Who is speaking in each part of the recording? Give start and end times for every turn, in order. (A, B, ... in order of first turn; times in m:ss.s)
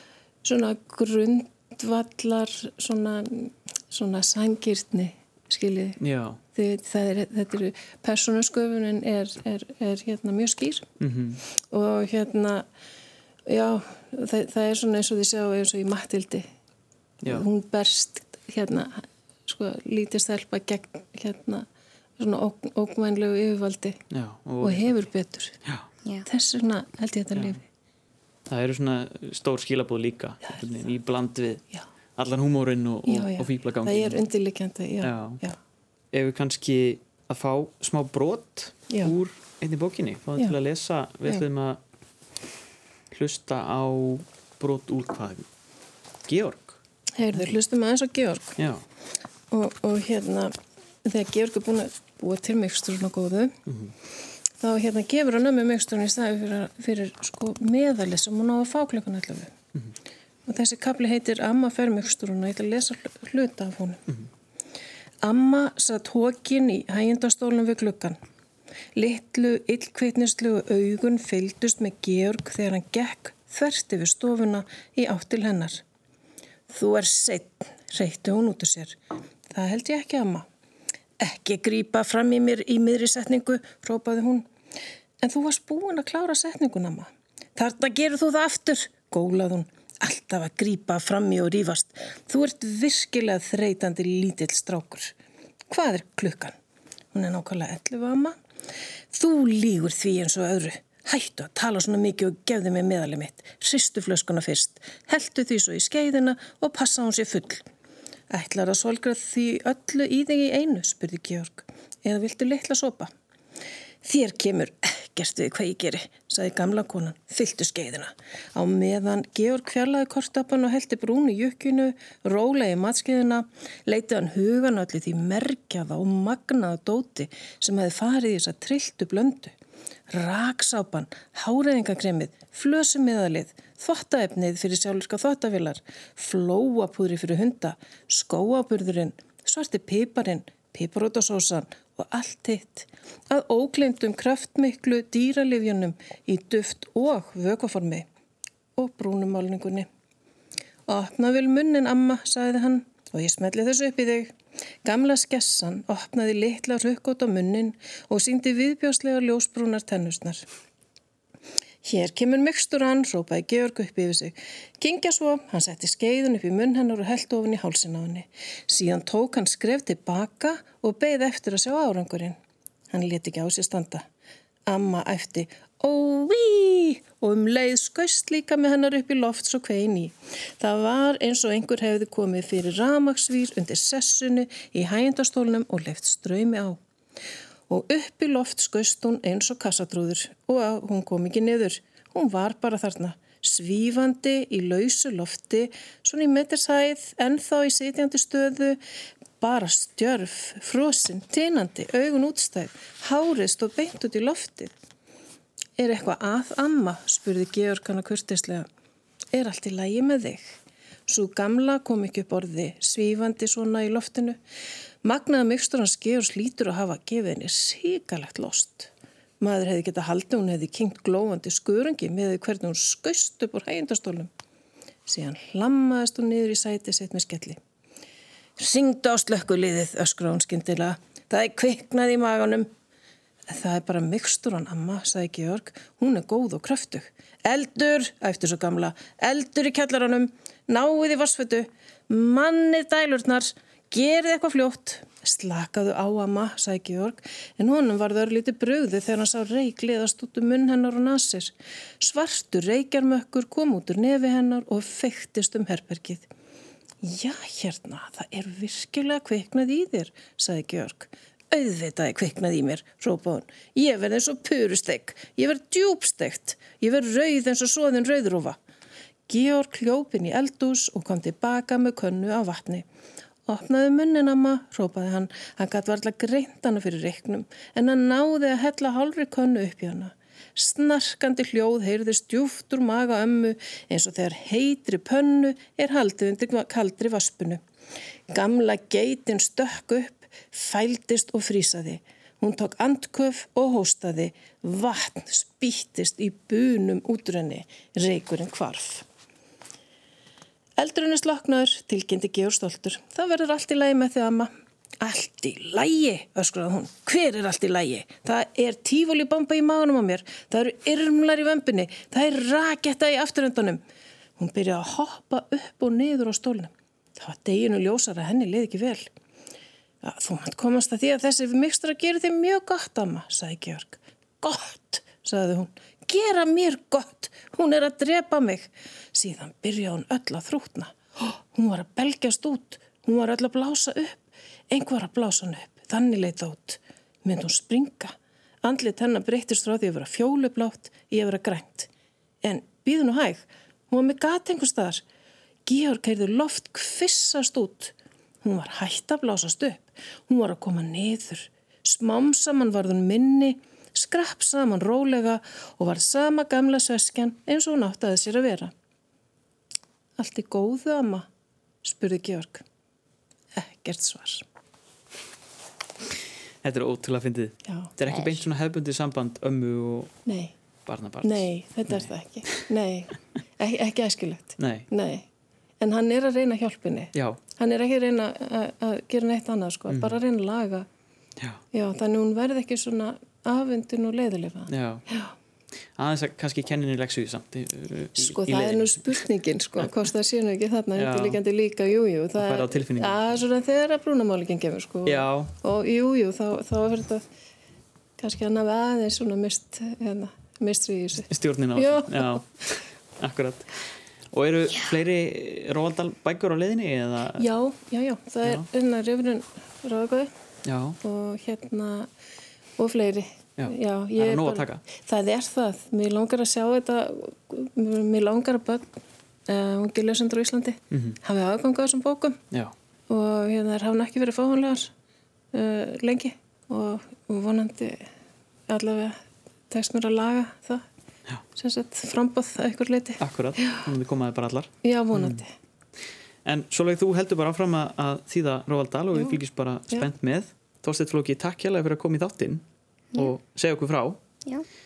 0:00.4-0:06.0 A
0:06.0-0:06.4 B
0:06.5-0:10.9 A
0:11.0-0:11.4 B
0:11.7-0:12.6 A
0:13.5-0:16.4 A
0:17.2-0:21.6 A
0:22.2-0:24.0 A
0:24.1-0:25.1 B
0:24.6-0:25.6 A
0:26.2-0:27.6 A
0:28.5-0:31.6 B
0:32.2-0:34.2 B
0:33.0-0:35.6 A
0:35.0-0:35.4 B
0:36.1-0:41.8 B
0:38.9-0:39.1 A
0:43.1-0:45.4 B
0:46.3-0:46.8 B
0:47.1-0:48.6 A
0:48.6-0:48.8 B
0:49.5-0:50.5 A
0:51.0-0:53.5 A
0:54.6-0:59.5 A
1:00.4-1:04.1 A
1:05.2-1:08.2 A
1:09.0-1:15.8 A
1:16.7-1:19.0 A
1:19.5-1:20.4 A
1:21.2-1:24.4 A
1:25.2-1:35.1 A
1:35.7-1:36.5 A
1:37.1-1:38.3 A
1:39.1-1:47.6 A
1:48.3-1:53.1 A
1:54.0-2:09.5 A
2:10.1-2:28.0 A
2:28.8-2:29.9 A
2:30.9-2:34.3 A
2:34.8-2:40.4 A
2:41.8-2:52.4 A
2:52.9-2:54.0 A
2:54.7-3:06.8 A
3:07.7-3:18.8 A
3:19.4-3:24.7 A
3:25.8-3:28.6 A
3:29.3-3:34.4 A
3:35.0-3:44.3 A
3:45.0-3:47.6 A
3:48.6-3:52.7 A
3:53.5-4:16.3 A
4:17.0-4:28.6 A
4:29.3-4:32.8 A
4:33.5-4:47.6 A
4:48.3-4:59.0 A
5:00.8-5:04.5 A
5:05.0-5:13.8 A
5:14.4-5:19.1 A
5:20.0-5:41.9 A
5:42.4-5:45.0 A
5:45.6-5:58.7 A
6:00.2-6:01.3 A
6:01.8-6:02.6 A
6:03.5-6:04.4 A
6:06.6-6:10.1 B
6:07.7-6:07.9 A
6:10.2-6:10.6 A
6:10.8-6:11.5 B
6:11.2-6:15.2 A
6:14.6-6:14.9 B
6:15.8-6:20.9 A
6:17.1-6:17.4 B
6:19.9-6:20.2 B
6:21.7-6:25.3 A
6:24.7-6:25.0 B
6:26.0-6:29.1 B
6:28.2-6:37.2 A
6:31.0-6:31.4 B
6:32.4-6:33.4 B
6:35.0-6:35.5 B
6:38.2-6:42.4 A
6:41.3-6:42.5 B
6:43.2-6:43.8 B
6:44.3-6:47.4 B
6:47.4-6:50.3 A
6:50.6-6:51.0 B
6:51.0-6:52.1 A
6:52.8-6:58.9 A
6:53.6-6:54.8 B
6:59.5-7:02.4 A
7:00.9-7:01.2 B
7:03.1-7:04.9 A
7:05.5-7:08.1 A
7:08.7-7:09.2 A
7:09.7-7:10.8 A
7:11.6-7:13.8 A
7:13.2-7:15.4 B
7:14.8-7:15.5 A
7:16.4-7:22.6 B
7:23.1-7:24.2 B